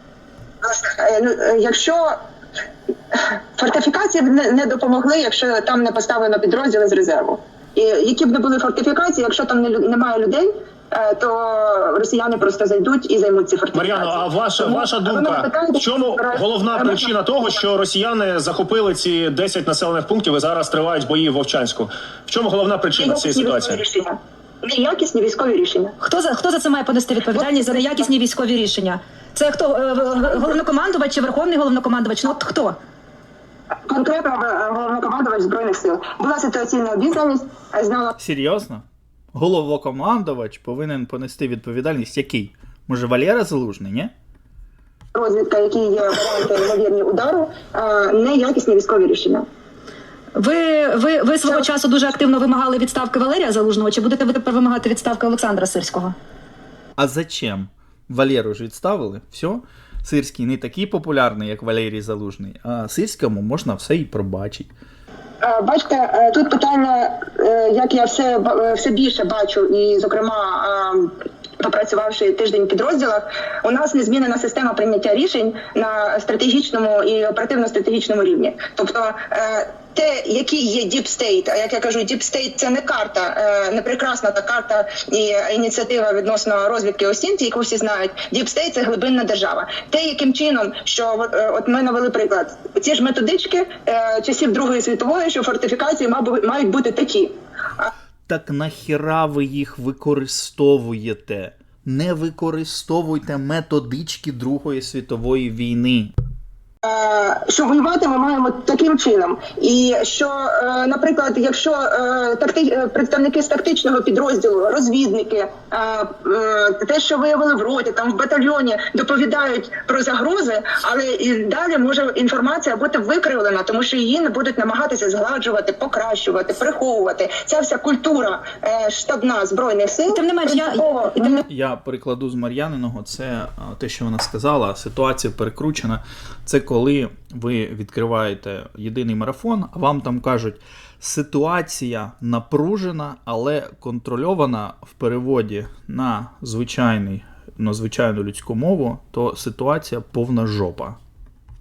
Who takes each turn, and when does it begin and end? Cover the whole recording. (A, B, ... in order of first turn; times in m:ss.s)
0:00.6-0:02.2 A
0:03.1-0:17.1 A
0:13.7-0:23.8 B
0:23.0-0:25.9 A
0:26.0-0:32.8 C
0:27.4-0:27.8 A
0:33.9-0:38.2 A
0:38.2-0:44.1 D
0:45.1-0:49.4 A
0:50.4-0:56.2 C
0:57.0-1:04.7 D
1:05.4-1:37.9 A
1:38.3-1:46.1 D
1:46.8-2:11.4 A
2:10.1-2:11.4 C
2:11.5-2:31.0 D